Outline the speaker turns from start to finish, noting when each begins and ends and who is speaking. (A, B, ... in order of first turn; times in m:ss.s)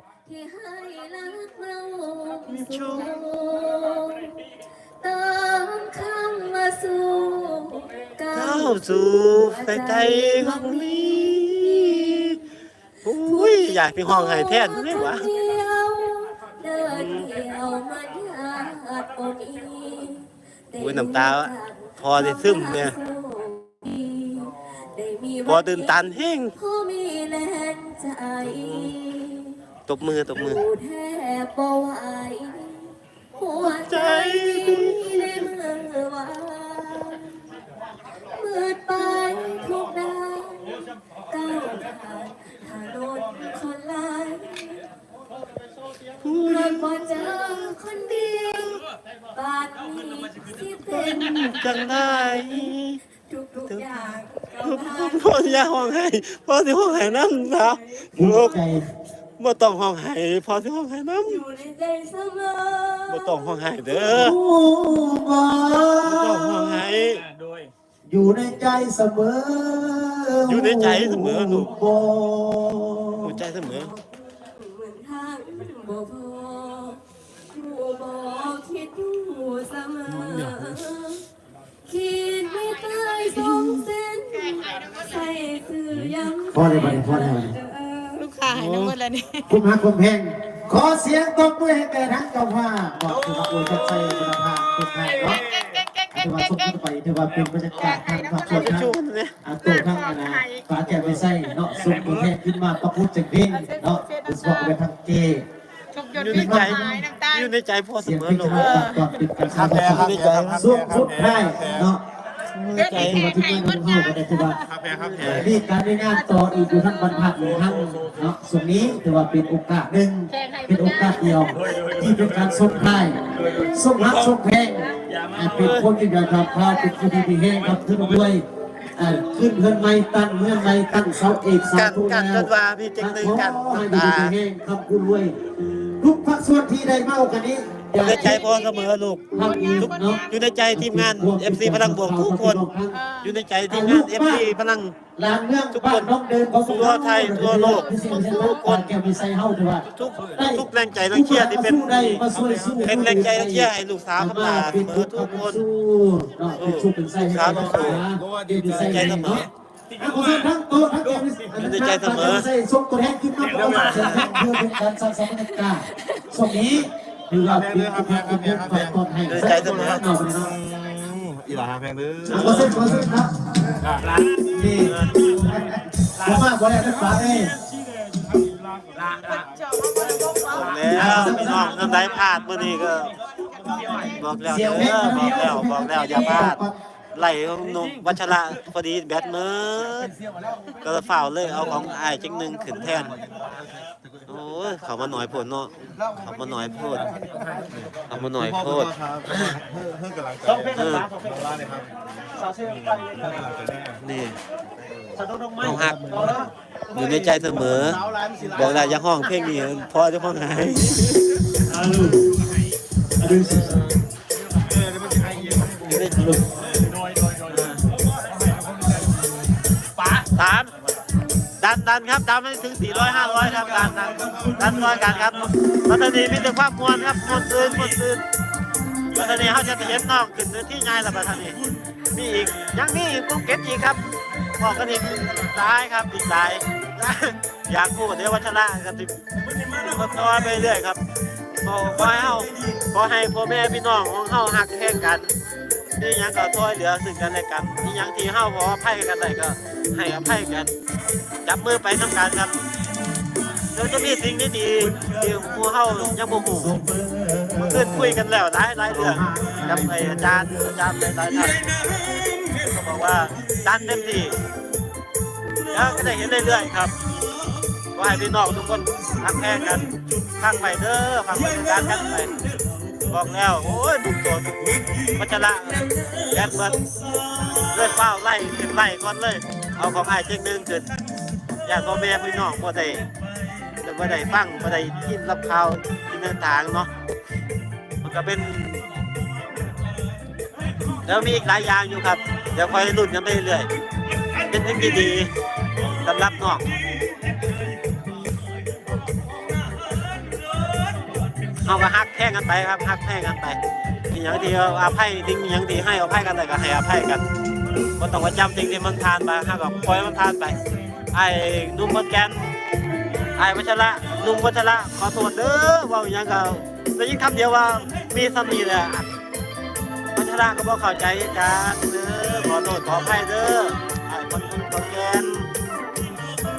0:00.2-0:04.4 A
0:02.5-0:03.2 B
0:05.0-0:12.4 A
0:08.3-0:12.4 B
0:13.0-0:15.3 B
0:13.2-0:26.0 A
0:16.9-0:17.3 B
0:20.8-0:22.9 B
0:25.4-0:26.5 B
0:26.6-0:29.6 A
0:28.4-0:28.9 B
0:29.9-0:30.6 B
0:30.4-0:37.4 A
0:33.6-0:35.1 B
0:38.3-0:44.8 A
0:46.2-0:46.9 B
0:46.4-0:48.8 A
0:49.3-0:52.7 A
0:50.9-0:53.0 B
0:53.2-0:55.7 A
0:54.6-0:58.7 B
0:56.8-0:58.1 A
0:58.1-0:58.8 C
0:59.4-1:01.4 B
1:01.2-1:04.3 A
1:03.1-1:04.4 B
1:04.1-1:06.8 C
1:06.0-1:07.2 B
1:07.3-1:07.7 D
1:08.0-1:13.4 C
1:10.5-1:11.7 B
1:13.2-1:13.9 B
1:13.6-1:21.2 A
1:21.8-1:28.4 A
1:26.5-1:27.6 C
1:28.2-1:29.5 D
1:28.5-1:28.9 B
1:29.5-1:35.5 C
1:33.2-1:34.1 E
1:35.0-1:35.8 E
1:35.2-1:36.7 D
1:36.1-1:45.5 C
1:37.5-1:37.8 E
1:37.7-1:39.3 B
1:37.8-1:38.8 D
1:39.6-1:40.7 D
1:40.8-1:42.3 E
1:43.6-1:44.8 D
1:45.9-1:47.5 D
1:46.1-1:47.1 C
1:46.2-1:49.0 B
1:48.0-1:52.0 C
1:48.6-1:49.0 D
1:49.5-1:51.1 B
1:49.6-1:51.9 E
1:52.5-1:53.3 B
1:52.7-1:54.6 C
1:52.7-1:54.6 D
1:54.4-1:55.6 E
1:54.9-1:55.6 B
1:55.2-2:15.3 C
1:56.1-1:57.3 D
1:57.3-1:58.1 E
2:00.3-2:01.6 D
2:01.3-2:04.2 E
2:05.1-2:06.2 E
2:05.5-2:05.9 B
2:06.7-2:07.0 D
2:11.6-2:14.3 B
2:16.0-2:18.5 C
2:18.0-2:22.6 B
2:18.1-2:18.8 D
2:19.3-2:23.0 C
2:19.4-2:20.4 D
2:22.9-2:23.3 D
2:23.2-2:25.0 B
2:23.7-2:24.5 C
2:25.2-2:50.6 C
2:25.7-2:26.1 B
2:26.6-2:28.9 B
2:28.0-2:28.3 D
2:29.9-2:32.2 B
2:32.2-2:33.1 E
2:32.8-2:35.6 B
2:36.6-2:38.0 B
2:37.4-2:39.5 E
2:38.8-2:39.5 B
2:40.0-2:40.3 E
2:41.5-2:42.5 B
2:43.4-2:44.5 E
2:43.6-2:44.5 B
2:45.5-2:46.4 A
2:47.4-2:53.2 E
2:49.3-2:50.1 B
2:52.2-2:53.4 C
2:52.3-2:52.8 B
2:53.8-2:54.2 E
2:54.4-2:57.6 C
2:54.8-2:55.5 B
2:59.0-2:59.4 E
2:59.0-3:01.1 D
3:00.0-3:00.3 E
3:00.4-3:03.2 B
3:00.8-3:02.2 C
3:03.5-3:04.1 D
3:03.6-3:04.0 E
3:03.7-3:06.8 C
3:03.9-3:06.6 B
3:07.1-3:10.1 B
3:10.2-3:10.6 C
3:10.8-3:13.2 B
3:11.6-3:11.9 C
3:12.8-3:13.0 C
3:12.9-3:14.0 E
3:14.3-3:17.1 B
3:16.8-3:21.9 E
3:16.9-3:17.4 C
3:18.1-3:19.6 B
3:20.4-3:21.3 C
3:20.7-3:21.1 B
3:22.4-3:23.4 C
3:22.7-3:24.0 E
3:24.0-3:24.4 B
3:24.9-3:25.2 E
3:25.2-3:29.0 C
3:25.6-3:26.3 B
3:25.7-3:26.4 E
3:26.9-3:28.0 B
3:28.5-3:31.7 B
3:31.7-3:32.3 C
3:33.2-3:33.9 C
3:34.7-3:36.2 E
3:35.8-3:36.4 B
3:37.1-3:37.8 E
3:40.3-3:40.7 B
3:41.6-3:48.2 B
3:44.1-3:44.7 E
3:49.1-3:51.6 B
3:52.1-3:54.0 B
3:54.6-4:01.0 B
4:01.6-4:05.3 B
4:06.0-4:10.7 B
4:11.4-4:12.5 B
4:13.7-4:16.8 B
4:14.8-4:15.4 C
4:16.5-4:18.2 C
4:17.6-4:24.4 B
4:18.9-4:20.7 C
4:25.7-4:26.9 B
4:27.9-4:32.4 B
4:33.0-4:40.9 B
4:41.6-4:43.1 B
4:43.8-4:46.9 B
4:48.0-4:48.8 B
4:51.0-4:53.7 B
4:54.5-4:55.3 B
4:55.9-4:56.6 B
5:01.6-5:03.6 B
5:04.1-5:07.2 B
5:08.0-5:10.6 B
5:11.1-5:12.5 B
5:13.4-5:19.1 B
5:20.2-5:25.5 B